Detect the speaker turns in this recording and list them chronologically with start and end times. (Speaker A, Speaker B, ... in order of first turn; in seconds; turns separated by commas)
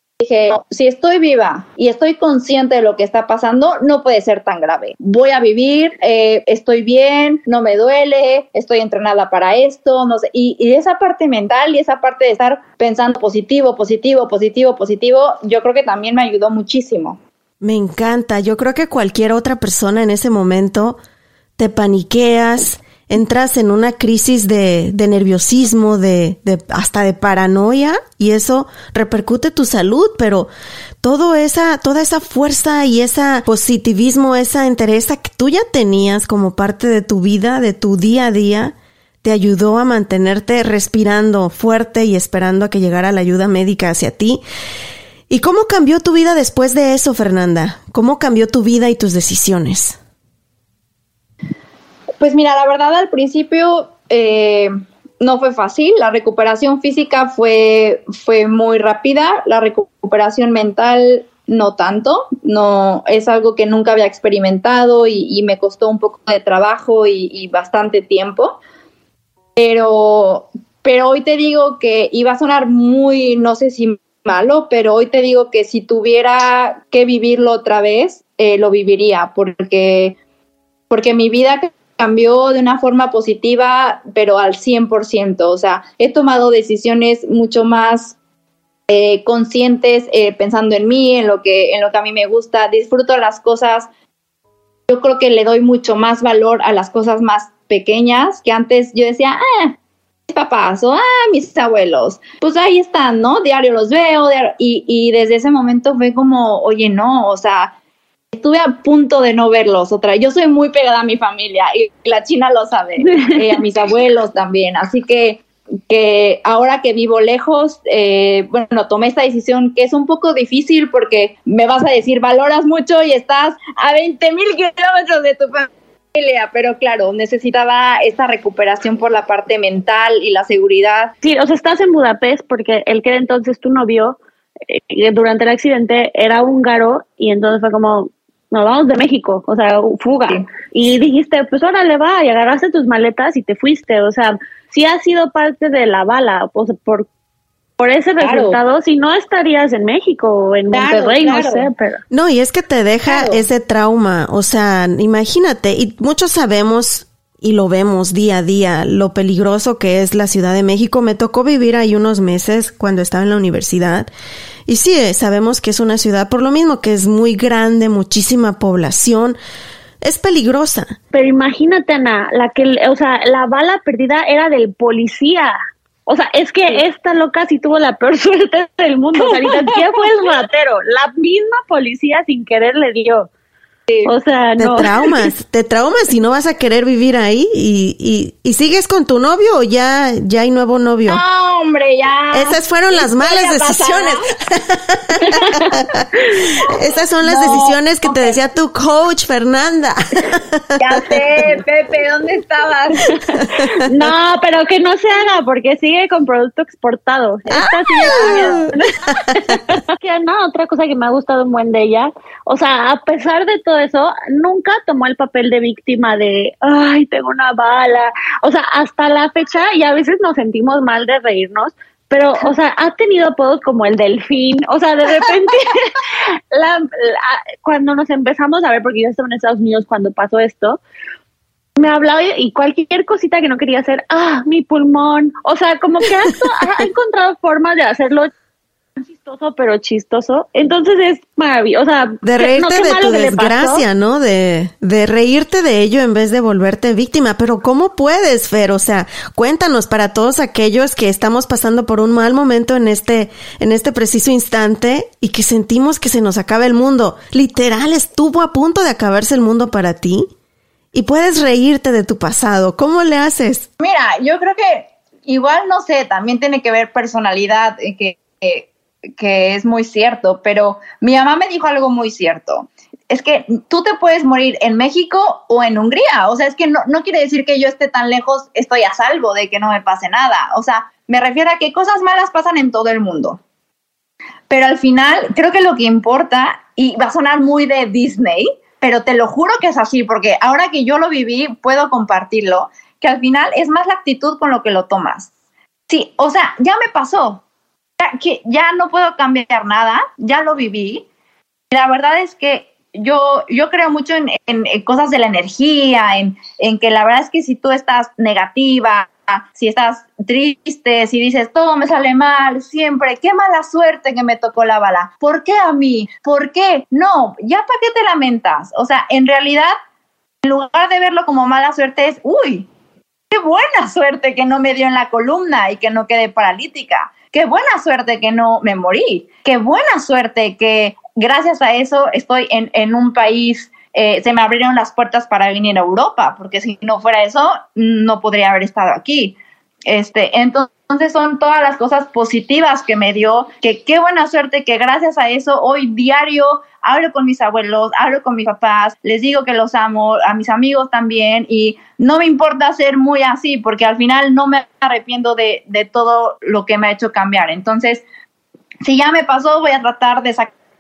Speaker A: 0.2-17.2, Speaker B: 17.6-21.0, Speaker B: 21.6-30.5, Speaker B: 31.0-44.4, Speaker B: 45.3-50.0, Speaker A: 52.2-68.6, Speaker A: 69.6-80.2, Speaker A: 80.9-88.2, Speaker A: 88.9-93.9, Speaker A: 94.9-99.8, Speaker A: 100.3-107.7, Speaker A: 108.3-131.1, Speaker C: 131.2-147.1, Speaker C: 147.8-152.0, Speaker A: 148.2-148.6, Speaker A: 150.7-151.7, Speaker B: 152.1-164.1, Speaker A: 153.1-153.4, Speaker B: 164.7-169.4, Speaker B: 170.0-171.0, Speaker C: 171.1-175.6, Speaker C: 176.1-183.3, Speaker A: 179.4-179.8, Speaker C: 184.1-185.2, Speaker B: 184.6-191.2, Speaker A: 191.1-194.3, Speaker B: 192.3-196.0, Speaker B: 196.7-201.6, Speaker A: 197.2-198.4, Speaker A: 200.8-203.1, Speaker C: 203.1-230.8, Speaker B: 203.4-203.7, Speaker B: 207.5-209.5, Speaker A: 208.1-208.7, Speaker C: 231.8-238.3, Speaker C: 239.1-243.8, Speaker B: 242.2-260.3, Speaker B: 260.9-263.7, Speaker A: 263.8-283.4, Speaker A: 284.5-295.3, Speaker A: 295.9-297.4, Speaker A: 298.0-301.1, Speaker A: 301.7-319.7, Speaker A: 320.4-322.7, Speaker A: 323.3-358.0, Speaker A: 358.8-360.5